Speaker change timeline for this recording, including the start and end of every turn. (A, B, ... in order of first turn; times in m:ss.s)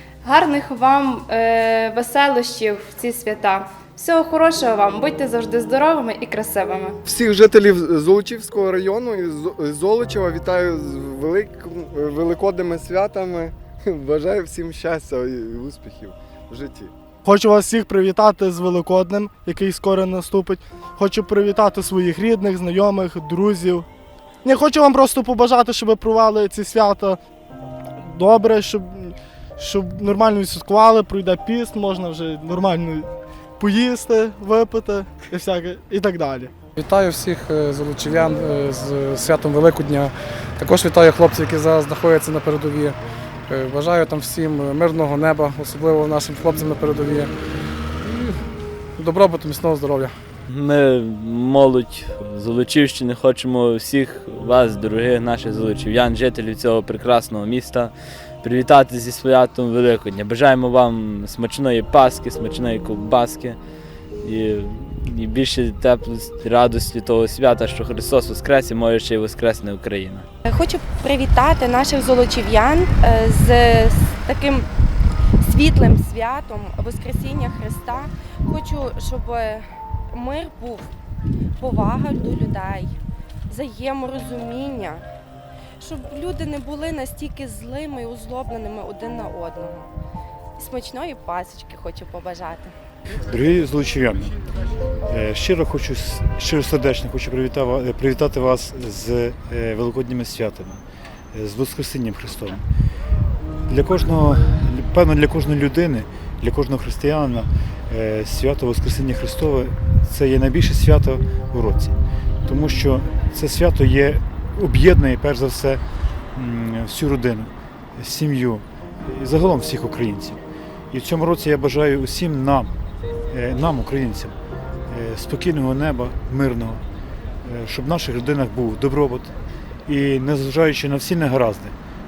0:00.2-0:07.0 A
0:07.0-0:16.9 B
0:17.2-0:23.9 C
0:24.4-0:27.2 C
0:28.0-0:33.1 C
0:33.6-0:36.5 C
0:36.8-0:47.3 D
0:49.0-0:50.1 D
0:50.5-1:03.6 E
1:04.2-1:10.2 E
1:10.4-1:14.7 F
1:15.4-1:20.9 F
1:21.6-1:23.0 F
1:23.5-1:25.0 F
1:25.8-1:29.9 F
1:30.6-1:32.7 F
1:33.3-1:34.4 G
1:35.0-1:40.8 G
1:41.3-1:42.6 G
1:43.7-1:51.9 G
1:52.4-1:55.8 G
1:56.3-2:00.4 G
2:00.9-2:02.7 G
2:03.3-2:04.3 G
2:04.9-2:06.8 G
2:07.4-2:09.3 G
2:09.9-2:11.8 G